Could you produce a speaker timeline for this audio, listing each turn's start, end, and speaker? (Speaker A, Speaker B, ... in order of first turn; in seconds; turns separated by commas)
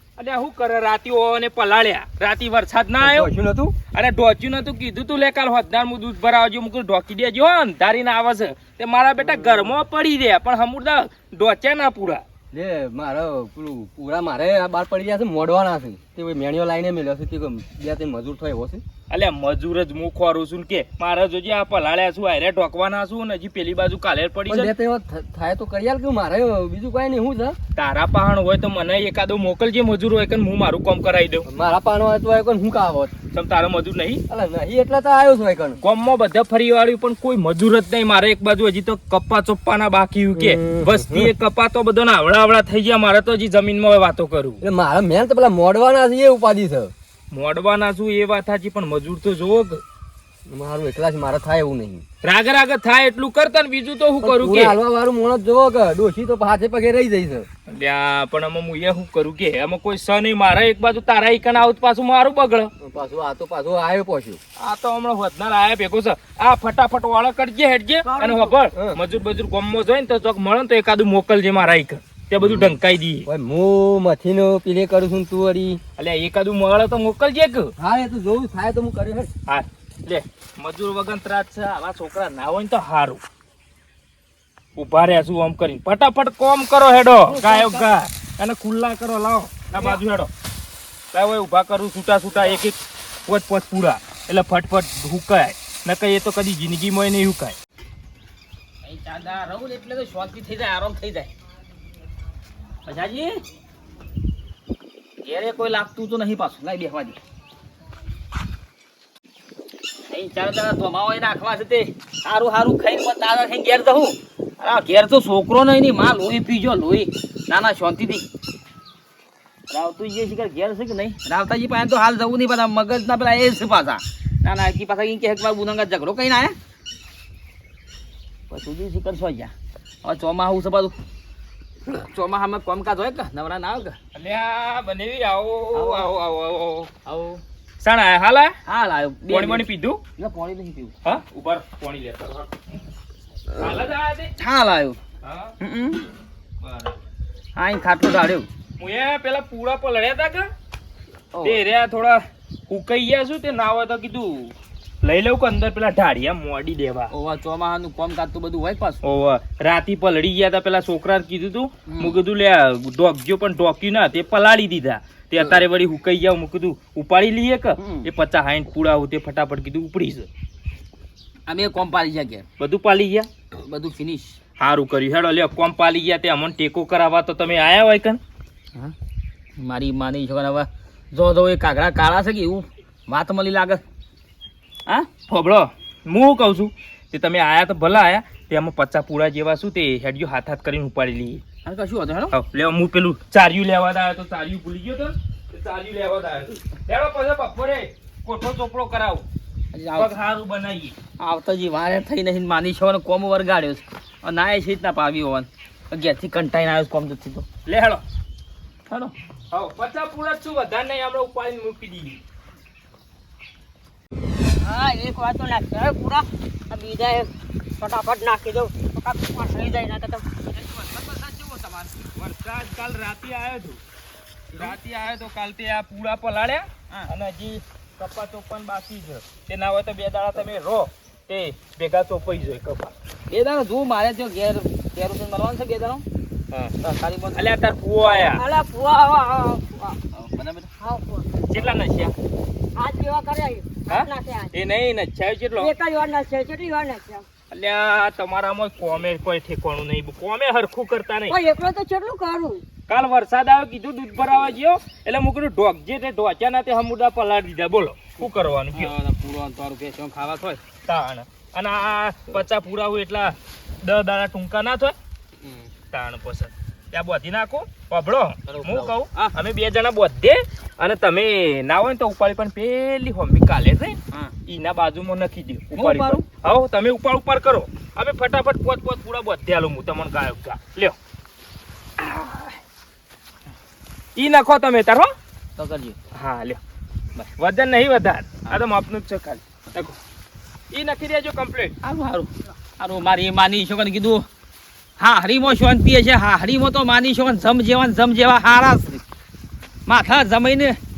Speaker A: 0.2-3.3, Speaker B: 3.0-3.8, Speaker A: 3.9-12.2, Speaker B: 9.2-9.7, Speaker B: 12.5-18.8, Speaker A: 19.1-24.7, Speaker B: 24.5-27.6, Speaker A: 27.8-31.5, Speaker B: 31.4-33.1, Speaker A: 33.3-34.2, Speaker B: 34.3-35.8, Speaker A: 35.8-44.6, Speaker B: 40.4-41.3, Speaker B: 44.6-46.9, Speaker A: 47.3-49.8, Speaker B: 50.5-52.0, Speaker A: 52.2-54.8, Speaker B: 54.2-57.5, Speaker A: 57.7-62.7, Speaker B: 62.8-64.4, Speaker A: 64.6-73.3, Speaker C: 68.2-68.5, Speaker B: 72.4-72.8, Speaker B: 73.3-75.8, Speaker A: 76.0-77.7, Speaker B: 77.8-79.3, Speaker A: 79.5-83.2, Speaker A: 84.8-90.3, Speaker D: 87.3-87.9, Speaker A: 91.1-97.6, Speaker D: 98.8-101.3, Speaker D: 102.8-103.4, Speaker D: 105.2-107.2, Speaker D: 110.1-118.2, Speaker D: 119.7-126.5, Speaker D: 128.5-129.5, Speaker D: 130.0-130.9, Speaker D: 131.9-134.0, Speaker A: 134.1-136.9, Speaker D: 135.7-136.1, Speaker D: 137.1-137.4, Speaker A: 137.8-138.6, Speaker D: 138.7-139.7, Speaker A: 139.3-140.0, Speaker D: 140.2-141.0, Speaker A: 141.0-142.6, Speaker D: 143.5-143.8, Speaker A: 143.6-144.3, Speaker D: 144.4-145.0, Speaker A: 145.2-145.6, Speaker D: 145.6-146.1, Speaker A: 146.6-147.0, Speaker D: 147.6-148.5, Speaker A: 148.8-150.5, Speaker D: 151.3-151.6, Speaker A: 151.4-157.1, Speaker D: 157.1-159.0, Speaker A: 159.0-170.3, Speaker D: 161.9-162.2, Speaker D: 167.8-168.1, Speaker D: 171.5-172.5, Speaker A: 172.6-173.3, Speaker D: 173.5-174.4, Speaker A: 174.6-178.2, Speaker D: 179.6-183.8, Speaker A: 185.3-191.4, Speaker D: 191.7-192.3, Speaker A: 192.3-199.2, Speaker D: 199.7-200.1, Speaker A: 199.9-201.0, Speaker D: 201.2-207.5, Speaker A: 207.7-208.0, Speaker D: 208.9-209.1, Speaker A: 209.5-212.2, Speaker D: 214.6-216.0, Speaker C: 214.8-217.3, Speaker D: 216.8-217.2, Speaker C: 217.8-220.2, Speaker D: 219.4-222.0, Speaker A: 222.2-223.8, Speaker A: 224.6-232.9, Speaker D: 233.3-236.1, Speaker D: 236.8-237.5, Speaker A: 237.3-238.4, Speaker C: 238.4-239.6, Speaker D: 239.4-240.7, Speaker C: 240.8-241.3, Speaker A: 241.5-242.2, Speaker C: 242.8-244.5, Speaker A: 243.9-245.7, Speaker C: 245.6-247.2, Speaker A: 247.5-251.4, Speaker C: 251.3-252.6, Speaker A: 252.9-258.9, Speaker D: 258.2-260.6, Speaker A: 260.9-264.9, Speaker D: 265.4-265.7, Speaker A: 265.9-281.0, Speaker D: 268.5-269.3, Speaker D: 275.7-276.3, Speaker A: 282.0-282.6, Speaker A: 284.2-285.1, Speaker D: 285.6-286.0, Speaker A: 286.1-286.6, Speaker A: 287.2-289.4, Speaker A: 290.7-291.8, Speaker D: 291.8-294.3, Speaker D: 295.0-299.0, Speaker D: 299.9-300.8